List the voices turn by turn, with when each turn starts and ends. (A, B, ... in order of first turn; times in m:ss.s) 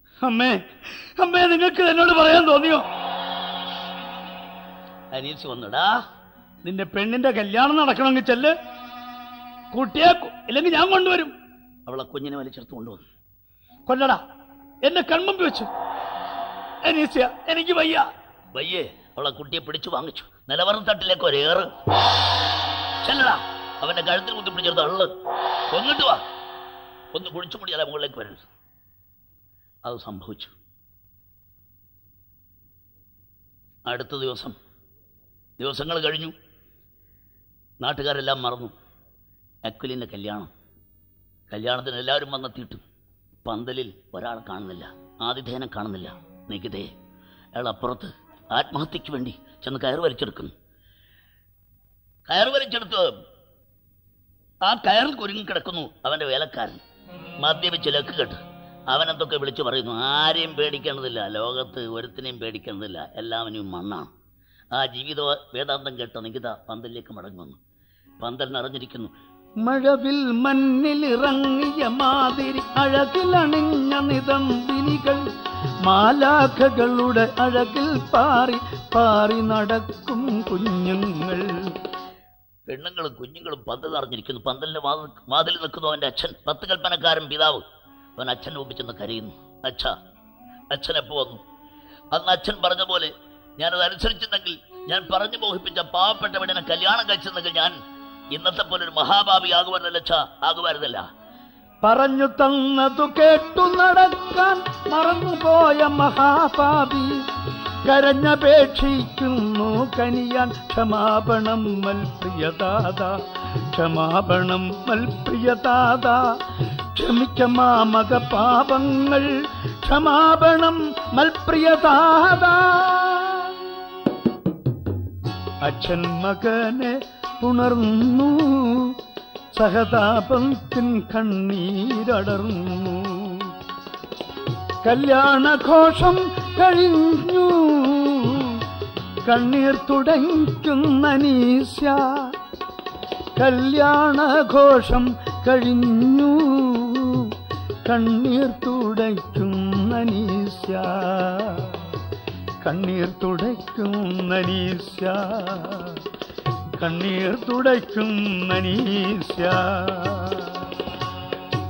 0:00.2-0:02.9 A
0:05.1-0:06.0 B
0:06.6-0:08.5 A
0:09.7-0:11.3 A
0:11.9-0:13.0 B
0:13.9-0:14.2 A
0:14.8-0:15.7 A
0:16.8-0:18.1 A
0:18.5-0:21.7 B
0:23.0-0:25.1 B
0:25.7-0:26.2 B
0:27.1-0:28.5 B
0:29.8-0:30.5 B
0:33.9-0:34.6 B
0:35.6-0:36.3 B
0:37.8-0:38.7 B
0:39.6-0:40.5 B
0:41.5-0:42.8 B
0:43.4-0:46.9 B
0:47.6-0:50.5 B
0:52.3-0:53.1 B
0:54.6-0:56.8 B
0:57.4-0:58.4 B
0:58.9-1:04.1 B
1:04.7-1:07.6 B
1:08.2-1:09.1 B
1:09.6-1:15.3 A
1:15.8-1:21.5 A
1:22.7-1:27.6 B
1:28.2-1:29.9 B
1:30.7-1:31.4 B
1:32.1-1:37.7 B
1:38.3-1:41.0 B
1:41.8-1:47.2 A
1:47.8-1:53.2 A
1:53.7-1:56.3 A
1:56.9-1:59.3 A
1:59.8-2:03.6 A
2:05.6-2:08.9 A
2:09.6-2:13.5 A
2:14.8-2:18.6 A
2:19.3-2:22.3 A
2:23.4-2:27.3 A
2:27.8-2:31.7 A
2:32.6-2:36.0 A
2:36.8-2:40.6 A